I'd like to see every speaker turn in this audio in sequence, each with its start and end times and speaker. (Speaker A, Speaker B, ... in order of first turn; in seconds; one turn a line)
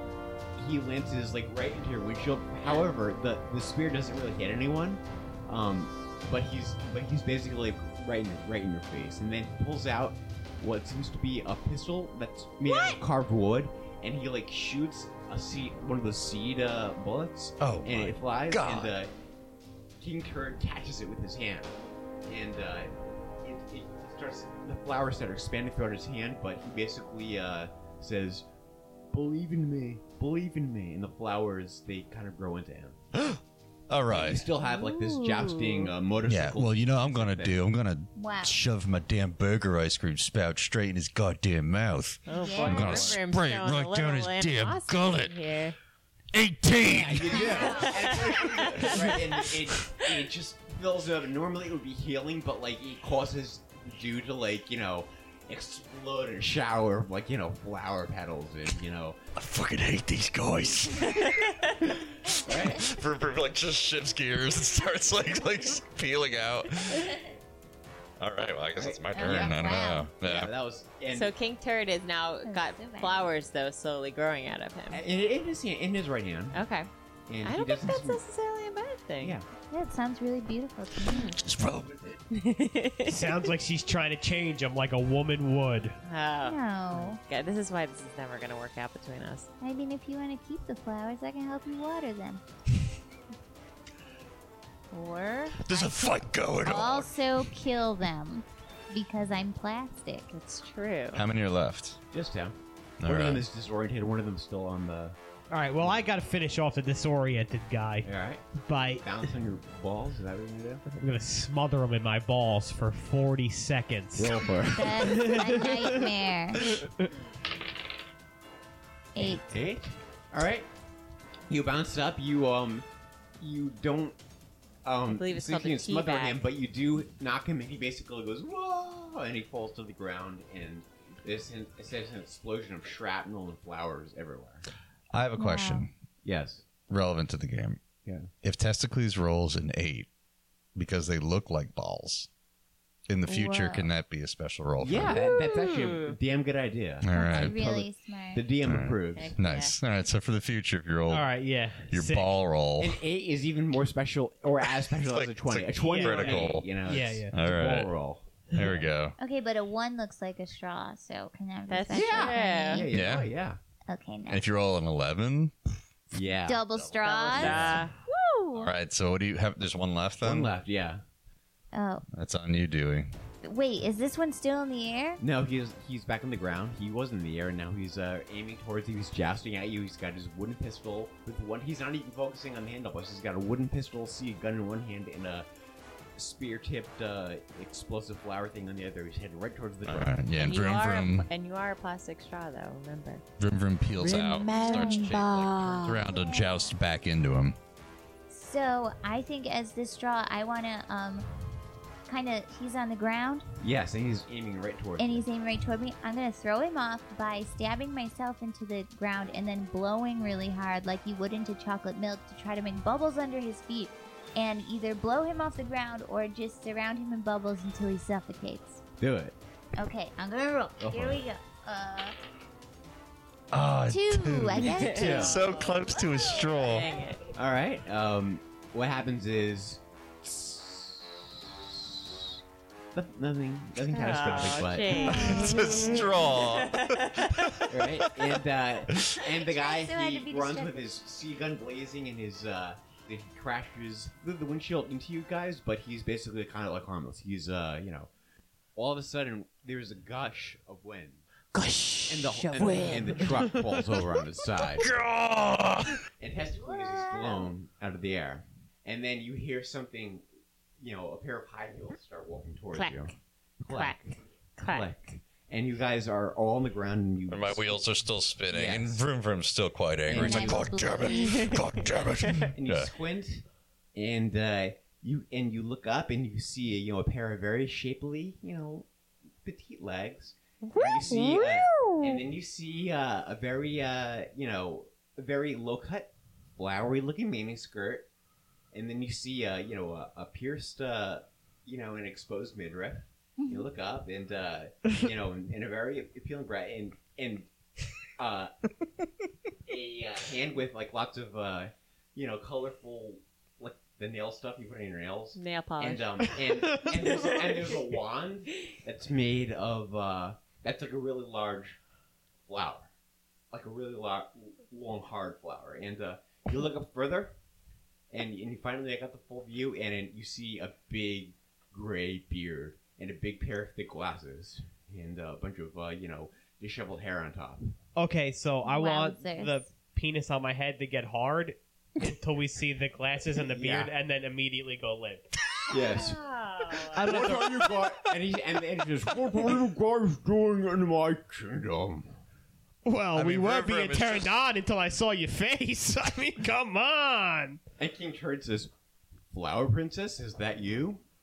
Speaker A: 0.6-19.1
Speaker B: 12.7-13.0
Speaker C: 17.6-18.9
Speaker A: 20.0-21.7
Speaker A: 22.2-28.5
Speaker A: 29.1-33.0
Speaker C: 33.1-34.4
Speaker A: 34.1-37.6
Speaker B: 34.4-35.6
Speaker C: 36.2-45.3
Speaker B: 38.2-38.6
Speaker D: 42.3-45.8
Speaker B: 42.3-43.2
Speaker C: 46.3-47.7
Speaker A: 46.8-59.2
Speaker B: 47.3-48.3
Speaker D: 47.4-49.2
Speaker C: 59.4-67.2
Speaker D: 61.1-61.8
Speaker A: 62.3-62.9
Speaker C: 68.2-70.5
Speaker A: 68.8-69.6
Speaker B: 69.1-70.1
Speaker A: 70.2-71.3
Speaker D: 71.1-75.0
Speaker B: 72.4-73.3
Speaker A: 74.9-76.6
Speaker D: 76.5-76.9
Speaker A: 77.3-78.2
Speaker D: 77.4-79.4
Speaker A: 79.2-79.5
Speaker B: 79.7-81.3
Speaker D: 81.1-81.4
Speaker C: 81.4-82.2
Speaker D: 82.3-83.5
Speaker E: 83.1-86.0
Speaker D: 86.0-89.5
Speaker B: 86.5-87.2
Speaker B: 89.6-92.4
Speaker B: 94.9-95.9
Speaker C: 95.5-97.2
Speaker B: 96.6-100.3
Speaker D: 100.3-101.2
Speaker C: 101.1-102.0
Speaker A: 102.1-105.2
Speaker C: 103.0-103.5
Speaker E: 105.5-109.3
Speaker A: 108.0-108.5
Speaker A: 109.0-110.8
Speaker E: 110.9-117.1
Speaker A: 114.2-115.3
Speaker B: 114.7-116.7
Speaker B: 119.2-119.6
Speaker A: 119.2-120.7
Speaker A: 121.5-122.9
Speaker A: 123.4-124.2
Speaker A: 124.8-134.7
Speaker D: 125.1-126.4
Speaker C: 135.1-135.9
Speaker B: 135.4-135.9
Speaker A: 136.2-136.7
Speaker C: 136.9-137.8
Speaker A: 138.1-138.3
Speaker C: 138.4-140.1
Speaker C: 140.8-142.3
Speaker C: 143.1-145.2
Speaker B: 143.3-143.9
Speaker A: 144.8-149.3
Speaker D: 145.1-146.1
Speaker C: 147.0-147.6
Speaker B: 147.1-148.5
Speaker C: 148.6-151.3
Speaker D: 149.2-149.8
Speaker E: 151.1-152.3
Speaker C: 151.9-153.0
Speaker A: 152.8-158.9
Speaker C: 155.0-157.9
Speaker D: 155.8-156.5
Speaker E: 156.9-157.4
Speaker C: 158.5-159.2
Speaker B: 159.2-162.9
Speaker D: 161.7-162.9
Speaker A: 161.9-163.6
Speaker C: 162.9-163.3
Speaker B: 163.9-164.5
Speaker C: 164.3-165.5
Speaker A: 166.1-166.7
Speaker B: 166.5-168.7
Speaker D: 167.0-167.9
Speaker A: 167.2-167.7
Speaker C: 167.3-167.9
Speaker C: 168.6-170.5
Speaker A: 170.2-171.0
Speaker B: 171.7-172.1
Speaker C: 172.1-173.1
Speaker B: 173.4-175.2
Speaker A: 175.2-185.5
Speaker A: 186.2-190.2
Speaker C: 189.8-191.3
Speaker D: 190.3-193.2
Speaker C: 193.4-197.6
Speaker D: 194.0-196.0
Speaker B: 194.4-196.8
Speaker B: 198.3-201.3
Speaker B: 202.1-203.5
Speaker A: 203.6-205.2
Speaker B: 205.0-218.8
Speaker A: 219.0-219.4
Speaker B: 219.8-222.2
Speaker A: 220.8-221.2
Speaker C: 223.5-226.9
Speaker B: 223.9-227.2
Speaker D: 224.6-227.2
Speaker A: 224.8-225.4
Speaker A: 227.3-232.4
Speaker A: 232.9-235.4
Speaker D: 233.9-237.6
Speaker B: 234.1-236.2
Speaker C: 235.1-239.2
Speaker A: 237.7-248.1
Speaker B: 239.2-240.9
Speaker A: 248.8-251.2
Speaker C: 251.6-253.0
Speaker A: 252.1-254.9
Speaker D: 252.2-253.1
Speaker E: 252.8-253.8
Speaker C: 254.8-256.0
Speaker A: 256.2-260.2
Speaker B: 256.6-257.5
Speaker A: 260.8-264.1
Speaker D: 262.7-263.1
Speaker D: 263.7-264.9
Speaker A: 264.6-267.9
Speaker C: 267.3-272.9
Speaker A: 268.5-268.9
Speaker A: 270.1-270.8
Speaker B: 270.1-271.6
Speaker D: 271.2-272.5
Speaker A: 272.6-278.9
Speaker A: 279.4-288.1
Speaker D: 280.6-281.6
Speaker B: 281.0-282.2
Speaker A: 288.7-297.5
Speaker B: 293.4-293.7
Speaker A: 298.2-298.5
Speaker A: 299.7-311.8
Speaker D: 305.4-308.0
Speaker A: 312.5-312.9
Speaker A: 313.5-317.4
Speaker A: 318.1-327.8
Speaker E: 328.0-335.3
Speaker B: 328.6-329.6
Speaker A: 333.3-333.9
Speaker A: 335.7-336.2
Speaker D: 335.8-337.1
Speaker E: 336.9-337.9
Speaker A: 336.9-342.1
Speaker E: 342.9-347.6
Speaker C: 343.1-344.4
Speaker A: 347.8-348.7
Speaker A: 349.3-351.0